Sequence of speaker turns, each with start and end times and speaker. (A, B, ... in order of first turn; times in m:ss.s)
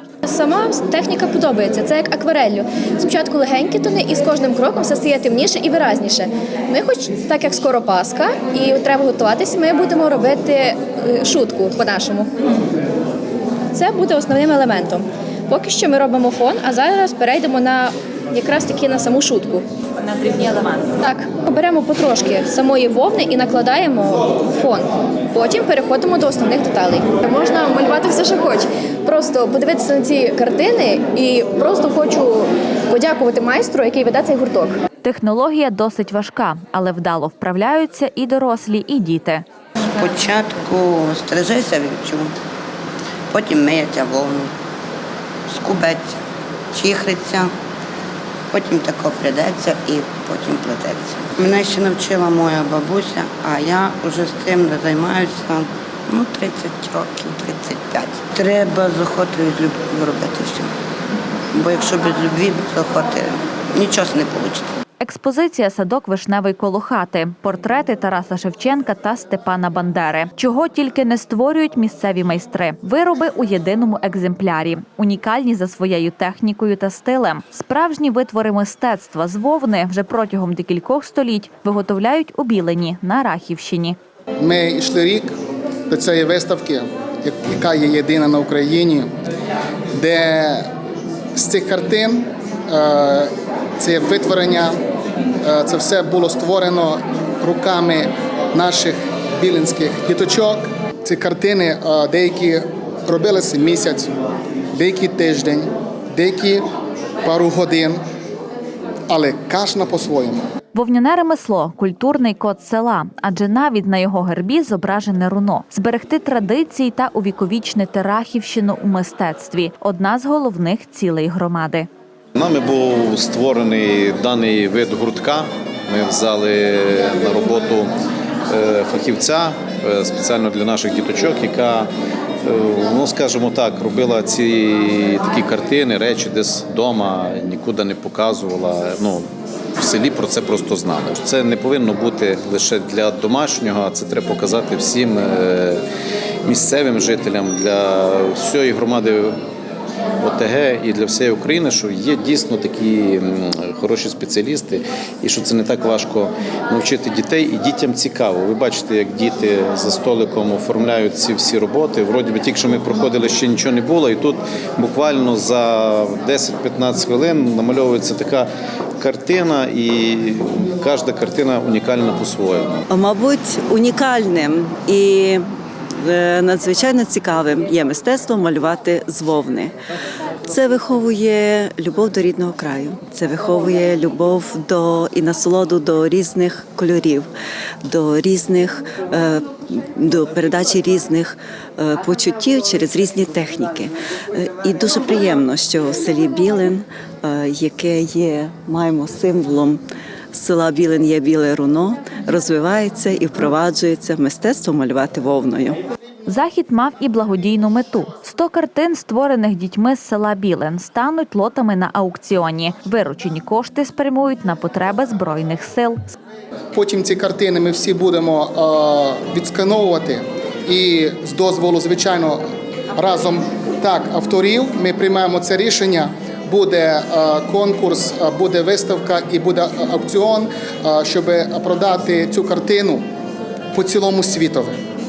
0:00.3-0:12.3 A
0:13.7-0:19.6 A
0:20.0-0:21.0 B
0:21.0-0:34.8 A
0:35.0-0:39.4 B
0:39.9-0:42.3 C
0:43.3-0:44.5 C
0:45.5-0:46.2 C
0:46.7-0:47.5 C
0:48.5-1:00.7 C
1:01.5-1:04.7 C
1:05.0-1:24.0 B
1:24.4-1:25.3 D
1:25.9-1:29.1 D
1:30.0-1:30.7 D
1:31.4-1:34.8 D
1:35.4-1:44.1 D
1:44.7-1:46.6 D
1:47.2-1:48.0 D
1:49.1-1:50.4 D
1:50.8-2:01.9 B
2:02.4-2:07.9 E
2:08.5-2:11.9 E
2:12.4-2:19.2 E
2:19.8-2:25.8 E
2:26.4-2:29.4 E
2:30.2-2:48.5 E
2:49.0-2:52.8 E
2:52.9-2:55.5 F
2:56.0-2:59.7 F
3:00.5-3:07.3 F
3:07.9-3:19.8 F
3:20.3-3:25.8 F
3:26.3-3:36.1 B
3:36.7-3:42.4 D
3:43.0-3:53.0 D
3:53.7-3:54.8 D